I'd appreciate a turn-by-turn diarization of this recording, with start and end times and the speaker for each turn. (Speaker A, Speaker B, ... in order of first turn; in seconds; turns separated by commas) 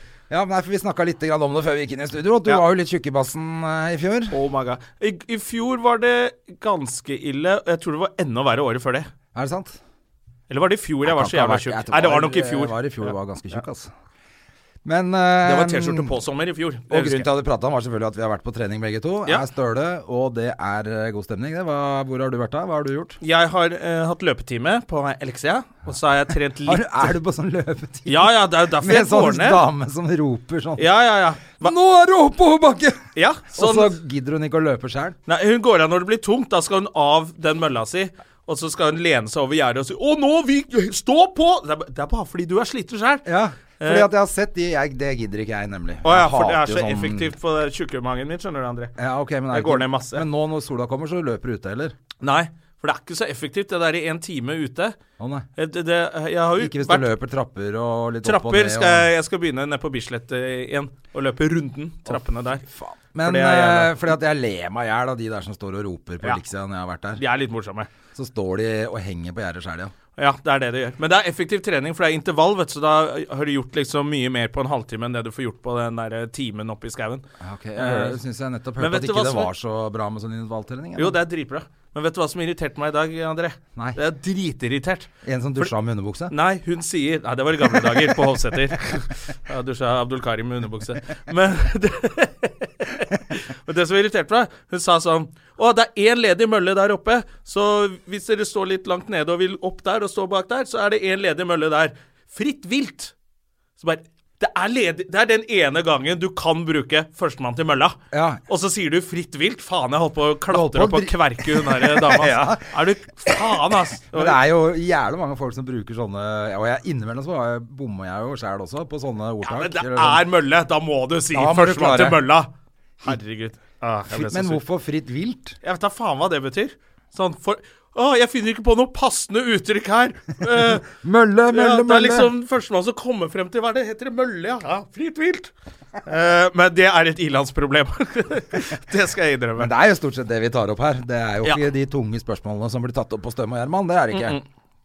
Speaker A: 0.3-4.3, Speaker B: 4.3-9.1, Speaker A: 9.3-9.8, Speaker B: 10.5-13.1, Speaker A: 11.1-13.9, Speaker A: 14.8-16.1, Speaker B: 15.4-17.3, Speaker A: 16.9-23.2, Speaker B: 23.2-27.2, Speaker A: 26.7-30.9, Speaker B: 28.1-29.6, Speaker B: 30.8-31.7, Speaker A: 31.6-35.2, Speaker B: 33.1-34.0, Speaker B: 35.3-43.3, Speaker A: 43.2-47.3, Speaker B: 43.8-44.1, Speaker B: 46.0-49.0, Speaker A: 49.0-52.0, Speaker B: 49.5-50.3, Speaker B: 52.2-55.0, Speaker A: 55.2-55.5, Speaker B: 55.6-57.1, Speaker A: 56.6-59.1, Speaker B: 58.2-62.7, Speaker A: 62.1-67.2, Speaker B: 63.2-63.9, Speaker B: 67.2-67.9, Speaker A: 68.1-69.9, Speaker B: 70.2-77.3, Speaker A: 77.4-81.2, Speaker B: 77.8-78.2, Speaker B: 78.8-79.5, Speaker B: 81.0-85.7, Speaker A: 85.2-86.3, Speaker B: 86.3-103.1, Speaker B: 103.8-114.4, Speaker A: 108.1-108.4, Speaker A: 110.5-120.2, Speaker B: 119.4-122.5, Speaker A: 121.3-122.2, Speaker B: 123.0-124.6, Speaker A: 124.1-125.6, Speaker B: 125.6-130.9, Speaker A: 130.6-132.3, Speaker B: 131.5-135.5, Speaker B: 136.0-139.7, Speaker A: 139.6-144.4, Speaker B: 144.1-144.4